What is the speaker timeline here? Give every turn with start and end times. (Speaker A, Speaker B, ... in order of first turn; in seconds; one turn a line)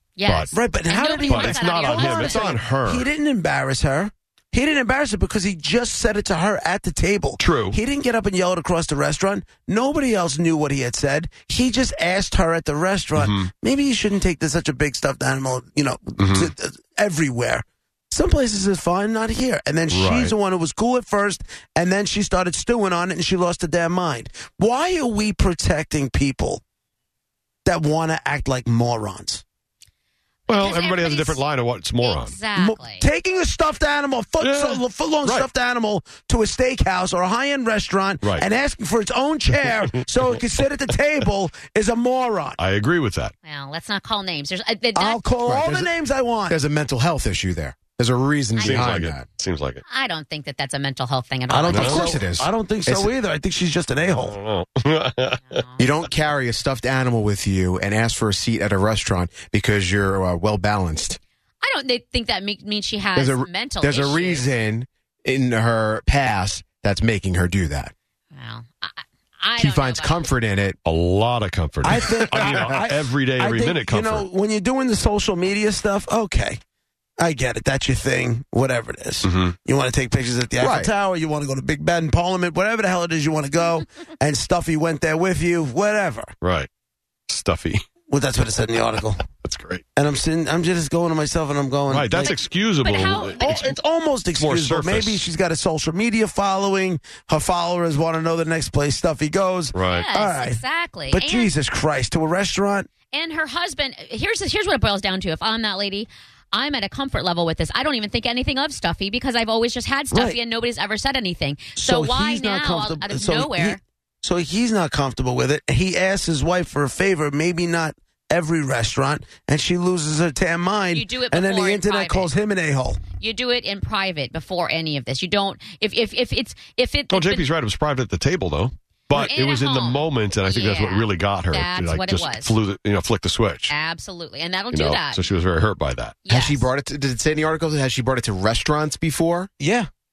Speaker A: 0.2-2.6
Speaker B: 0.3-0.5
Speaker C: 0.5-26.6
Speaker B: 1.3-3.1
Speaker B: 7.4-7.8
Speaker B: 13.2-13.5
Speaker B: 16.2-16.5
Speaker B: 19.9-20.3
Speaker C: 27.6-29.4
Speaker A: 30.5-31.4
Speaker B: 30.5-32.4
Speaker A: 32.0-33.1
Speaker C: 32.6-42.6
Speaker B: 34.4-35.5
Speaker B: 42.6-43.3
Speaker A: 43.5-45.2
Speaker C: 45.0-46.5
Speaker D: 45.5-45.9
Speaker D: 46.5-49.3
Speaker A: 48.6-49.0
Speaker B: 48.6-49.8
Speaker A: 49.9-52.2
Speaker C: 51.5-54.4
Speaker B: 51.7-52.1
Speaker D: 51.8-53.1
Speaker B: 54.1-55.6
Speaker A: 55.5-55.9
Speaker D: 55.8-61.2
Speaker A: 61.6-64.5
Speaker D: 63.2-67.9
Speaker A: 68.3-70.3
Speaker D: 69.6-70.8
Speaker B: 70.8-74.3
Speaker D: 71.8-72.9
Speaker C: 71.9-72.8
Speaker C: 73.4-76.6
Speaker C: 77.2-86.3
Speaker B: 79.2-79.5
Speaker D: 80.6-80.9
Speaker B: 86.4-86.7
Speaker B: 87.3-87.8
Speaker C: 88.1-89.2
Speaker B: 89.4-89.8
Speaker C: 90.0-92.3
Speaker B: 91.9-93.5
Speaker A: 92.2-93.8
Speaker C: 93.4-100.6
Speaker B: 94.3-95.2
Speaker B: 99.7-100.1
Speaker A: 99.9-101.5
Speaker C: 101.1-102.9
Speaker A: 103.1-113.8
Speaker C: 110.1-110.4
Speaker C: 111.8-123.0
Speaker A: 120.9-122.3
Speaker A: 123.2-127.5
Speaker B: 127.1-133.7
Speaker A: 129.1-132.6
Speaker A: 133.7-135.2
Speaker B: 134.7-136.2
Speaker A: 136.3-136.7
Speaker D: 136.3-139.5
Speaker C: 139.6-139.9